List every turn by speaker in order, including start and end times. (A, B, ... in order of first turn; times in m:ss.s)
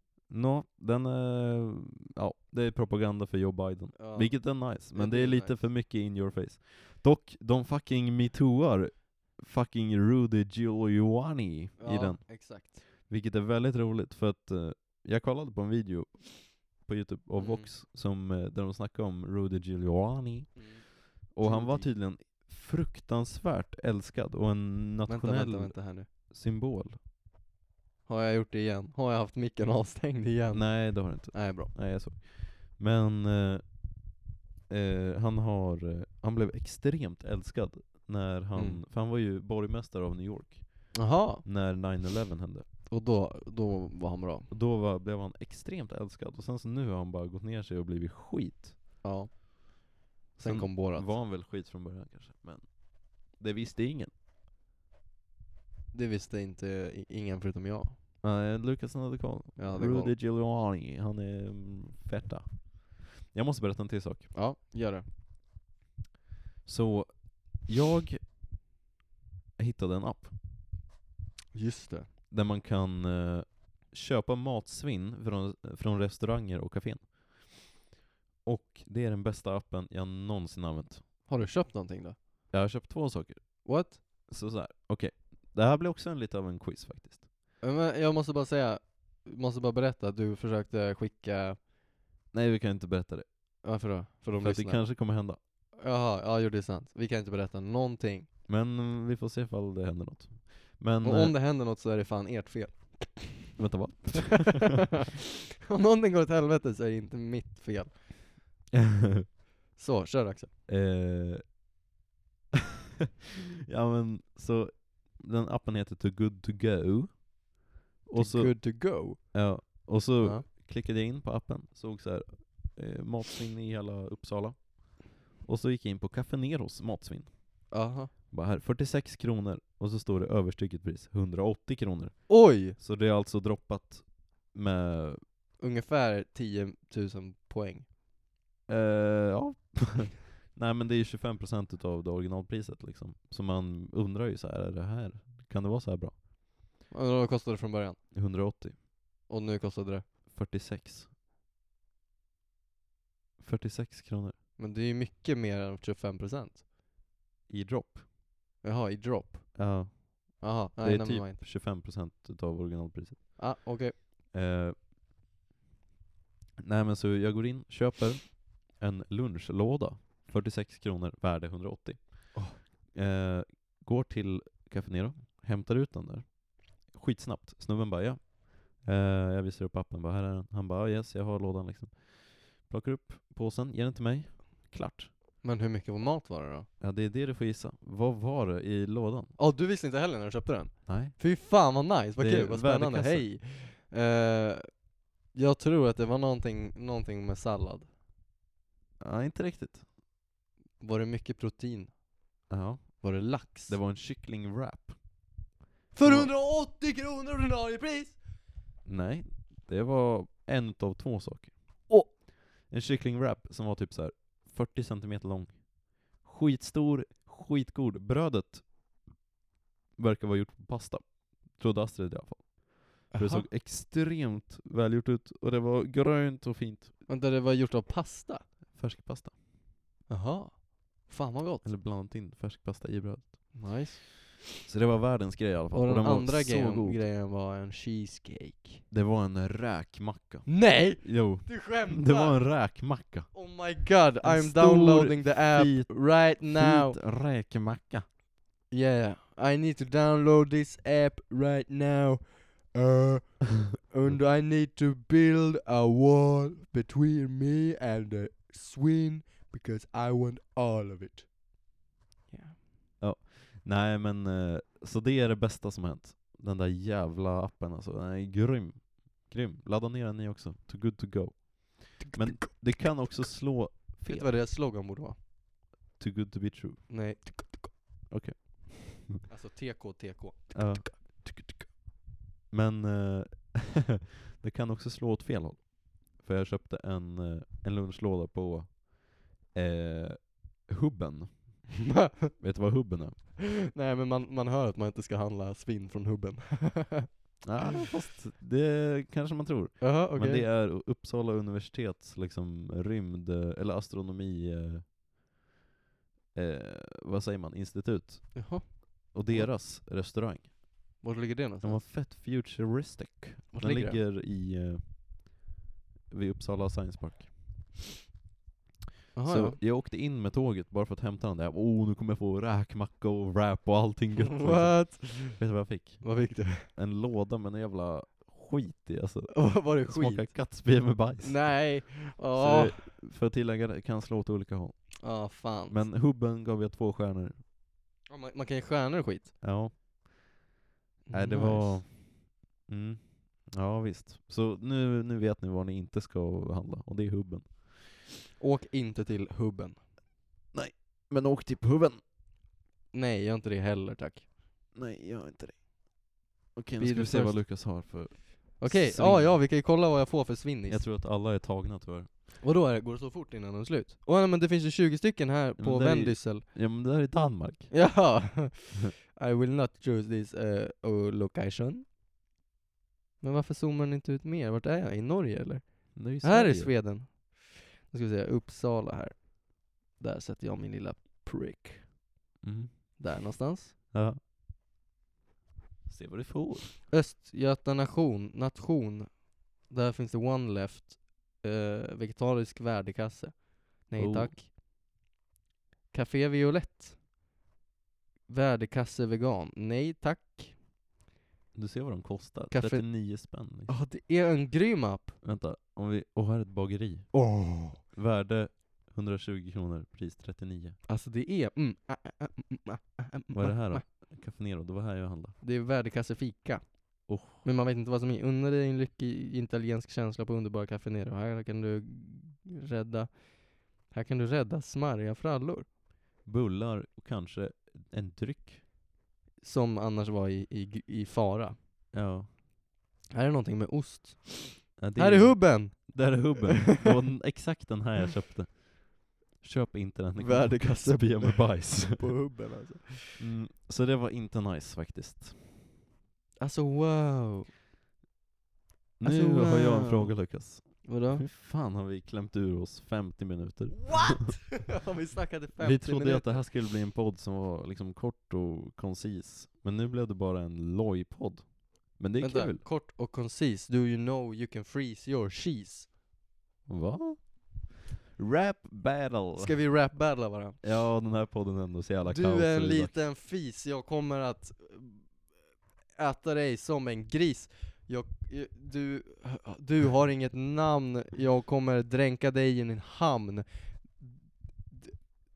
0:00.3-0:27.0 A
0:04.0-0:05.6 B
0:11.8-0:12.8 B
0:17.4-0:17.7 B
0:20.6-0:21.9 B
0:25.0-0:26.1 B
0:28.0-0:31.7 B
0:30.5-0:34.2 A
0:34.7-0:42.6 A
0:38.6-0:38.8 B
0:40.9-0:41.4 B
0:42.9-0:44.5 B
0:44.5-0:48.8 A
0:49.0-0:51.1 B
0:50.4-0:54.1 A
0:55.9-0:58.0 B
0:58.2-1:04.3 A
0:59.6-1:00.1 B
1:04.3-1:05.0 B
1:06.6-1:08.2 A
1:09.6-1:10.3 A
1:11.5-1:12.1 B
1:12.3-1:17.8 A
1:18.4-1:21.1 A
1:21.3-1:22.2 B
1:22.5-1:27.3 A
1:23.6-1:24.0 B
1:27.6-1:31.6 B
1:32.3-1:33.6 A
1:33.6-1:35.1 B
1:34.4-1:35.4 A
1:35.8-1:38.3 B
1:38.5-1:41.3 A
1:41.0-1:43.6 B
1:43.6-1:44.7 A
1:45.6-1:48.3 B
1:48.7-1:49.3 A
1:49.7-1:50.5 B
1:50.7-1:51.6 A
1:53.7-2:07.8 A
1:58.1-2:00.4 B
2:07.7-2:08.1 B
2:08.3-2:15.2 A
2:12.3-2:12.8 B
2:15.6-2:17.9 B
2:18.7-2:26.2 A
2:26.9-2:28.0 B
2:28.1-2:28.8 A
2:29.3-2:30.1 B
2:30.3-2:31.1 A
2:33.4-2:34.4 A
2:34.6-2:36.6 B
2:37.5-2:38.0 A
2:38.6-2:39.8 B
2:39.6-2:43.6 A
2:40.4-2:41.4 B
2:43.4-2:44.0 B
2:44.3-2:44.8 A
2:46.6-3:05.1 A
2:52.3-2:52.6 B
3:05.4-3:06.7 B
3:06.8-3:09.3 A
3:09.4-3:17.9 B
3:10.9-3:11.2 A
3:12.2-3:13.3 A
3:19.0-3:19.9 A
3:20.8-3:22.0 B
3:22.5-3:25.3 A
3:23.0-3:23.8 B
3:25.9-3:28.2 B
3:26.0-3:26.3 A
3:28.8-3:38.7 A
3:40.0-3:47.0 A
3:43.1-3:43.5 B
3:47.1-3:48.5 B
3:48.7-3:49.4 A
3:50.1-3:51.7 B
3:51.6-3:53.8 A
3:53.5-3:54.2 B
3:54.6-3:57.0 A
3:55.7-3:58.8 B
3:58.9-4:08.1 A
4:00.4-4:02.7 B
4:03.3-4:07.0 B
4:08.7-4:21.3 B
4:22.3-4:22.6 B
4:23.0-4:34.3 A
4:32.0-4:32.7 B
4:34.1-4:35.2 B
4:36.0-4:36.9 A
4:36.9-4:37.7 B
4:38.1-4:39.2 A
4:39.3-4:41.3 B
4:40.5-4:41.7 A
4:42.5-4:51.8 A
4:51.9-4:52.4 B
4:52.4-4:53.2 A
4:53.4-4:57.2 B
4:57.4-5:04.9 A
4:59.8-5:00.5 B
5:06.3-5:10.6 A
5:08.3-5:09.5 B
5:11.0-5:11.8 B
5:11.6-5:15.4 A
5:13.5-5:14.0 B
5:16.1-5:17.8 A
5:19.1-5:19.6 B
5:19.2-5:31.8 A
5:24.2-5:26.7 B
5:29.3-5:32.9 B
5:32.3-5:37.4 A
5:35.0-5:35.8 B
5:38.1-5:39.4 B
5:39.4-5:40.4 A
5:41.1-5:41.8 B
5:41.1-5:48.0 A
5:48.4-5:49.8 B
5:50.5-5:52.0 A
5:52.9-5:54.3 B
5:54.7-5:59.4 A
5:56.8-5:57.9 B
5:58.6-6:00.8 B
6:00.7-6:02.1 A
6:02.4-6:06.5 B
6:05.6-6:07.8 A
6:07.7-6:11.8 B
6:13.2-6:21.9 B
6:15.9-6:16.8 A
6:22.4-6:23.0 A
6:23.0-6:23.7 B
6:23.9-6:24.2 A
6:25.9-6:26.8 A
6:26.9-6:34.5 B
6:34.0-6:34.4 A
6:35.9-6:37.0 B
6:38.3-6:40.6 B
6:41.5-6:43.7 A
6:42.5-6:45.2 B
6:45.2-6:47.3 A
6:47.1-6:47.8 B
6:47.8-6:50.8 A
6:50.9-6:53.8 B
6:53.3-6:55.4 A
6:55.4-7:05.7 B
6:57.1-6:57.4 A
7:06.2-7:08.6 A
7:09.4-7:11.6 B
7:11.9-7:12.3 A
7:13.1-7:16.4 B
7:14.8-7:22.1 A
7:20.2-7:23.2 B
7:23.2-7:25.4 A
7:26.4-7:27.5 B
7:29.0-7:34.4 A
7:29.0-7:31.2 B
7:33.8-7:36.4 B
7:35.6-7:42.6 A
7:42.2-7:45.9 B
7:46.6-7:49.9 A
7:49.4-7:50.6 B
7:50.6-7:53.0 A
7:52.0-7:55.3 B
7:55.9-8:04.1 B
8:04.7-8:05.0 B